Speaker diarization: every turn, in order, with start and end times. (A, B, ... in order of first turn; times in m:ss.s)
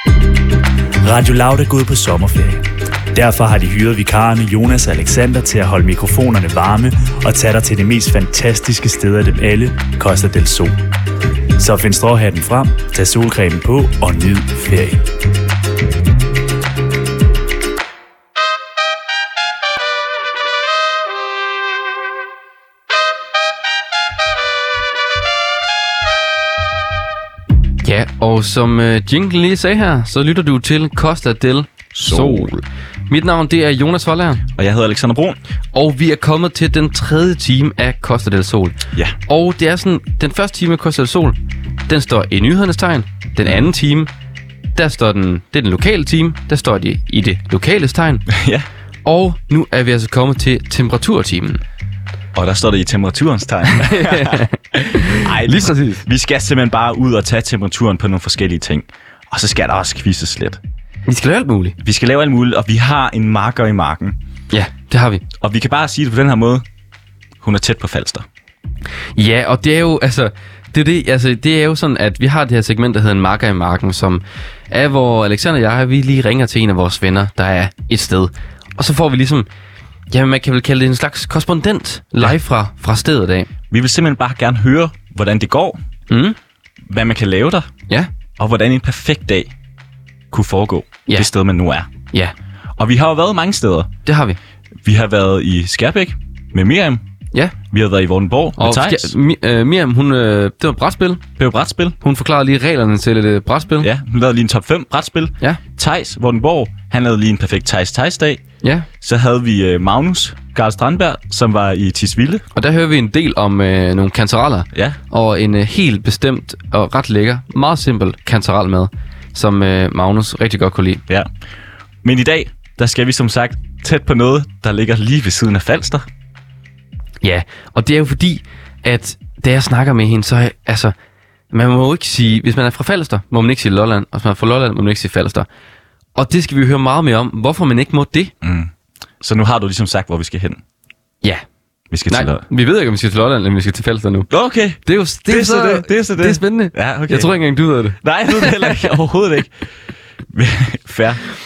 0:01.0-0:10.8 A
0:11.6-0:15.0 A
0:27.8-0:34.4 B
0:31.9-0:32.5 C
0:34.6-0:35.4 C
0:35.7-0:44.1 B
0:44.7-0:48.3 B
0:48.3-0:48.7 C
0:49.0-0:51.6 B
0:52.3-1:00.6 C
0:53.8-0:56.0 B
1:01.0-1:01.8 B
1:01.8-1:04.2 C
1:04.5-1:05.2 B
1:05.4-1:06.6 C
1:07.4-1:08.2 C
1:09.2-1:19.5 B
1:20.1-1:23.5 B
1:23.7-1:25.8 C
1:26.1-1:26.4 B
1:26.9-1:27.7 C
1:28.4-1:29.5 C
1:30.3-1:31.9 C
1:32.8-1:33.9 C
1:34.0-1:34.4 B
1:34.8-1:37.0 C
1:37.7-1:39.1 C
1:38.6-1:41.2 B
1:41.4-1:42.0 C
1:42.0-1:43.9 B
1:43.8-1:48.4 C
1:48.6-1:48.9 B
1:49.0-1:52.4 C
1:52.5-2:01.0 B
2:02.0-2:06.0 C
2:07.2-2:10.9 B
2:11.5-2:15.5 B
2:16.2-2:18.3 B
2:18.4-2:20.6 C
2:21.9-2:22.4 C
2:22.1-2:24.3 B
2:24.3-2:27.3 C
2:24.8-2:28.9 B
2:28.0-2:29.5 C
2:30.3-2:31.2 C